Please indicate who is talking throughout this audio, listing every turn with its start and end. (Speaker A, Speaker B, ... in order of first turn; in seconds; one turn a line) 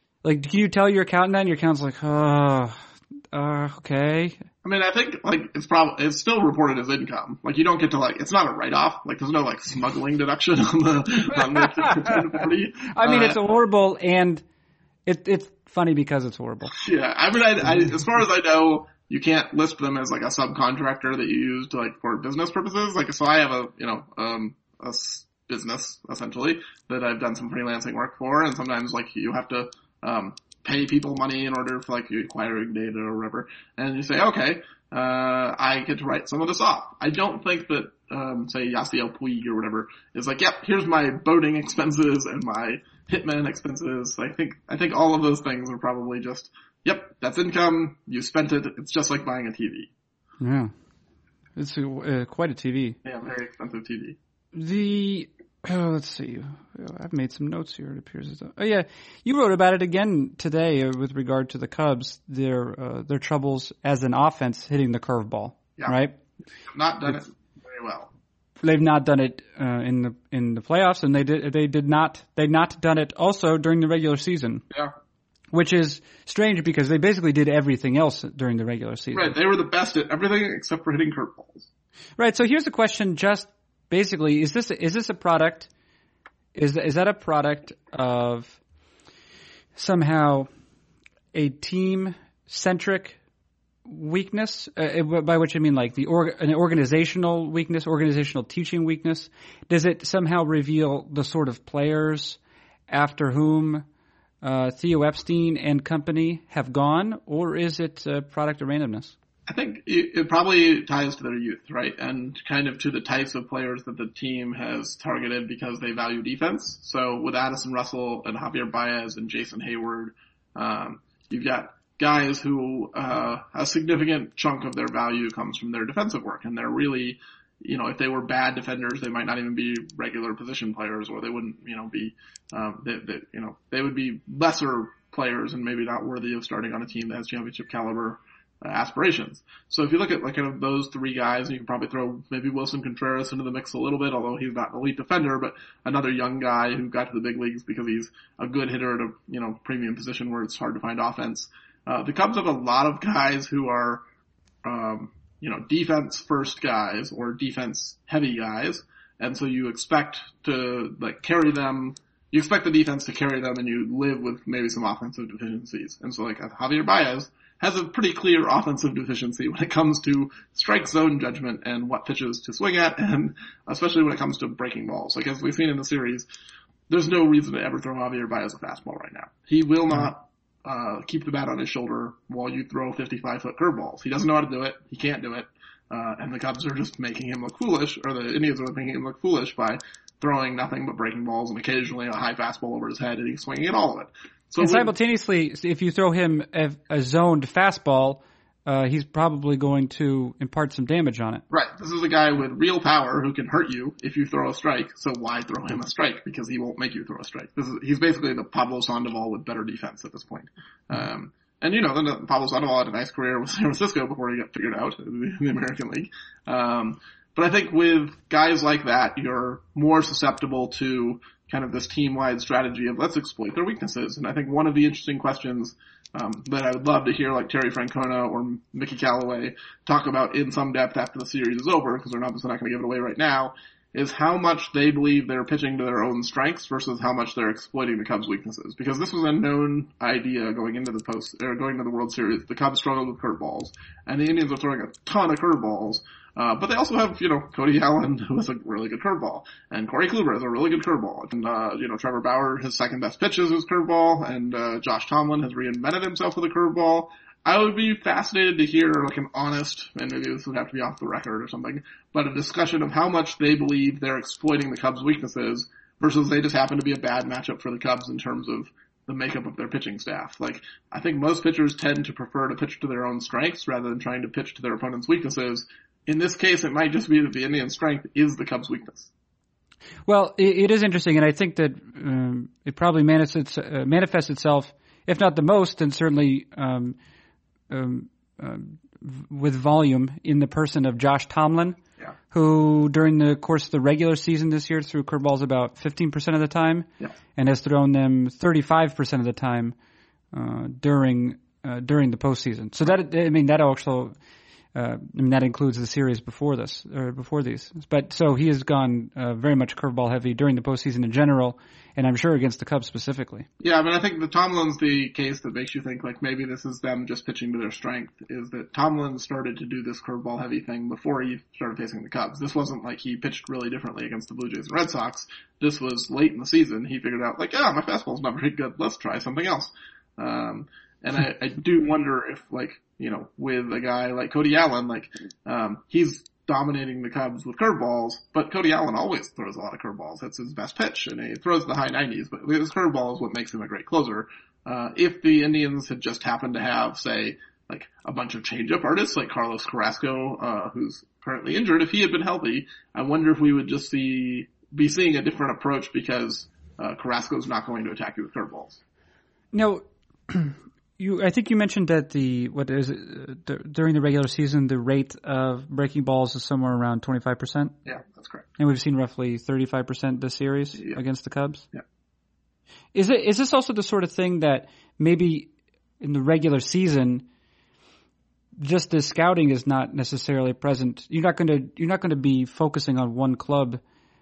Speaker A: 0.2-4.4
Speaker B: 4.6-13.4
Speaker A: 11.5-12.1
Speaker A: 12.9-14.4
Speaker A: 15.1-16.8
Speaker B: 16.7-49.9
Speaker A: 50.4-50.7
Speaker A: 51.5-53.0
Speaker B: 53.0-54.2
Speaker A: 54.5-66.2
Speaker B: 66.7-68.1
Speaker A: 68.6-74.6
Speaker A: 75.5-79.3
Speaker B: 79.1-81.7
Speaker A: 82.2-85.7
Speaker A: 86.5-88.6
Speaker A: 89.8-90.5
Speaker A: 91.3-93.2
Speaker A: 93.8-103.8
Speaker A: 104.4-109.2
Speaker B: 109.5-154.0
Speaker B: 154.6-176.3
Speaker B: 176.9-194.9
Speaker A: 194.6-201.4
Speaker B: 201.5-279.1
Speaker A: 280.1-287.0
Speaker A: 287.7-291.8
Speaker A: 292.3-299.7
Speaker A: 300.3-304.1
Speaker A: 304.7-313.5
Speaker B: 313.6-358.8
Speaker A: 359.5-367.7
Speaker B: 367.9-368.4
Speaker A: 368.6-371.7
Speaker B: 370.7-371.0
Speaker A: 372.9-377.2
Speaker A: 378.6-383.8